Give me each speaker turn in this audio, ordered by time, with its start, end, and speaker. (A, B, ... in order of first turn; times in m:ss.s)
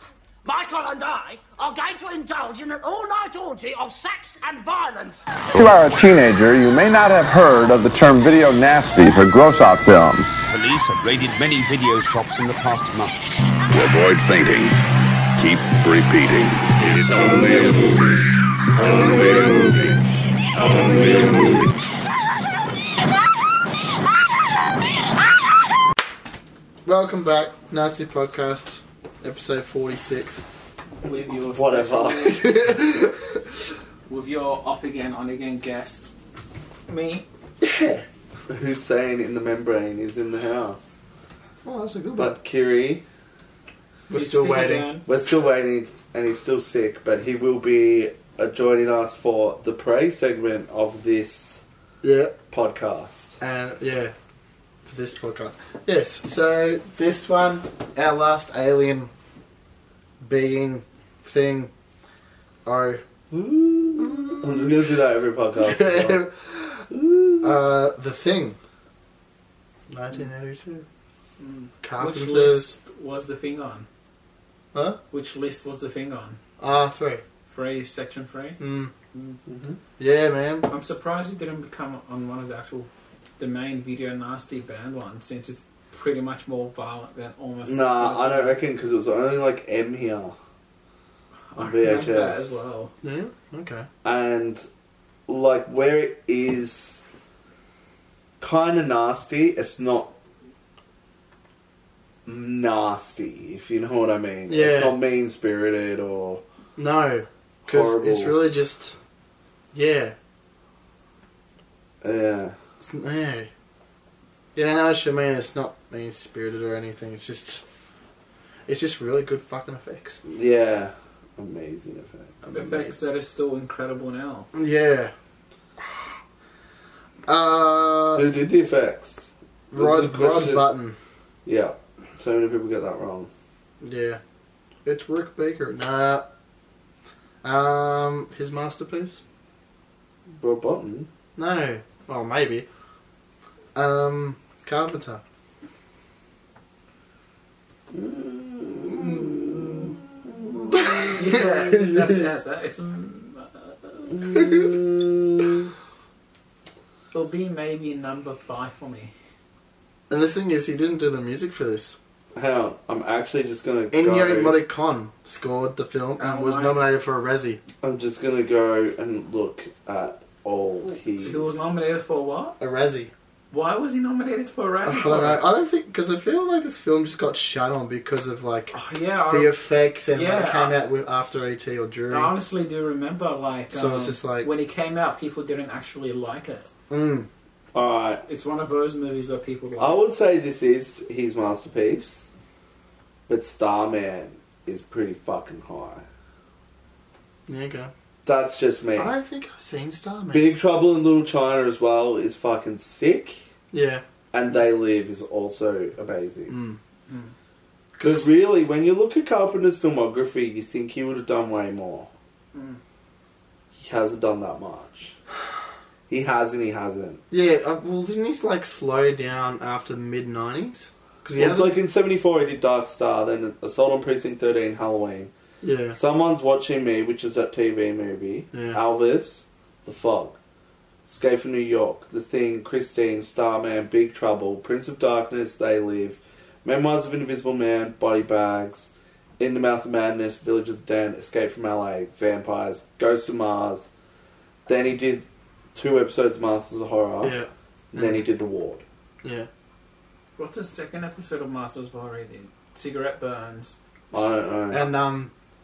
0:00.4-0:05.3 A
0:05.5-0:10.3 B
0:10.5-0:13.4 C
0:13.7-0:14.8 D
0:15.4-0:18.2 D
0:18.8-0:19.9 D
0:20.6-0:21.7 D
0:26.8-0:30.4 E
0:31.0-0:32.4 F
0:31.5-0:33.0 G
0:32.2-0:33.4 E
0:34.1-0:36.1 F
0:36.9-0:37.2 F
0:37.6-0:38.0 E
0:38.5-0:40.9 G
0:41.6-0:42.4 E
0:42.2-0:43.0 G
0:44.1-0:44.9 E
0:44.1-0:45.0 F
0:45.0-0:51.6 G
0:52.0-0:52.4 E
0:52.5-0:53.3 G
0:53.4-0:54.1 E
0:54.8-0:59.1 E
1:00.2-1:01.7 E
1:02.6-1:03.0 E
1:03.3-1:06.3 G
1:03.9-1:04.8 E
1:05.6-1:06.8 E
1:06.9-1:07.6 G
1:07.4-1:08.6 E
1:09.9-1:10.8 E
1:11.4-1:13.9 F
1:11.8-1:12.8 E
1:14.7-1:15.0 E
1:15.1-1:16.4 F
1:16.6-1:17.2 E
1:17.5-1:18.6 F
1:18.6-1:18.9 E
1:19.5-1:19.8 G
1:20.0-1:20.7 E
1:20.7-1:28.6 F
1:27.6-1:30.4 G
1:31.5-1:32.9 F
1:31.6-1:32.6 G
1:33.0-1:33.9 E
1:34.0-1:34.6 G
1:35.3-1:37.0 G
1:38.4-1:40.1 G
1:42.2-1:46.4 G
1:44.5-1:45.0 E
1:46.8-1:49.0 E
1:47.6-1:48.3 G
1:49.7-1:50.2 E
1:52.0-1:52.5 G
1:52.8-1:53.5 E
1:54.5-1:57.6 E
1:58.7-2:00.2 E
2:00.2-2:02.3 G
2:02.4-2:02.9 E
2:02.5-2:04.5 F
2:04.5-2:05.1 E
2:05.8-2:06.1 E
2:07.3-2:08.2 E
2:08.1-2:10.7 G
2:09.7-2:11.0 E
2:11.4-2:13.3 G
2:13.8-2:14.2 E
2:14.8-2:16.2 E
2:17.4-2:19.2 E
2:20.4-2:21.1 G
2:21.4-2:22.7 E
2:23.7-2:25.2 E
2:27.9-2:31.4 G
2:29.0-2:29.4 E
2:30.7-2:32.2 E
2:31.1-2:34.2 F
2:34.1-2:35.7 G
2:34.3-2:34.8 E
2:37.1-2:39.1 F
2:40.1-2:42.0 E
2:42.3-2:44.6 G
2:43.9-2:47.6 E
2:46.2-2:46.8 F
2:47.8-2:51.7 G
2:51.2-2:52.6 F
2:52.6-2:53.1 E
2:53.5-2:55.4 F
2:54.8-2:58.7 E
2:58.7-2:59.6 F
2:59.3-3:02.3 E
3:00.1-3:00.8 F
3:02.1-3:06.6 F
3:03.7-3:04.5 E
3:06.9-3:07.3 E
3:07.7-3:08.2 G
3:08.2-3:10.0 F
3:09.8-3:12.2 G
3:13.3-3:16.0 G
3:17.5-3:17.9 E
3:18.2-3:19.1 G
3:19.0-3:20.5 E
3:20.3-3:23.4 G
3:23.7-3:24.0 E
3:24.3-3:26.5 G
3:26.5-3:26.8 E
3:27.9-3:28.3 E
3:28.0-3:32.1 G
3:32.5-3:32.8 F
3:33.8-3:35.1 G
3:36.1-3:37.2 G
3:37.3-3:41.8 E
3:41.4-3:45.3 G
3:45.6-3:46.0 E
3:45.9-3:50.4 G
3:48.5-3:48.8 E
3:51.1-4:03.9 G
4:04.6-4:07.3 G
4:07.2-4:08.2 E
4:07.9-4:08.8 G
4:09.2-4:09.5 E
4:10.4-4:13.7 F
4:14.1-4:14.9 G
4:14.7-4:15.3 E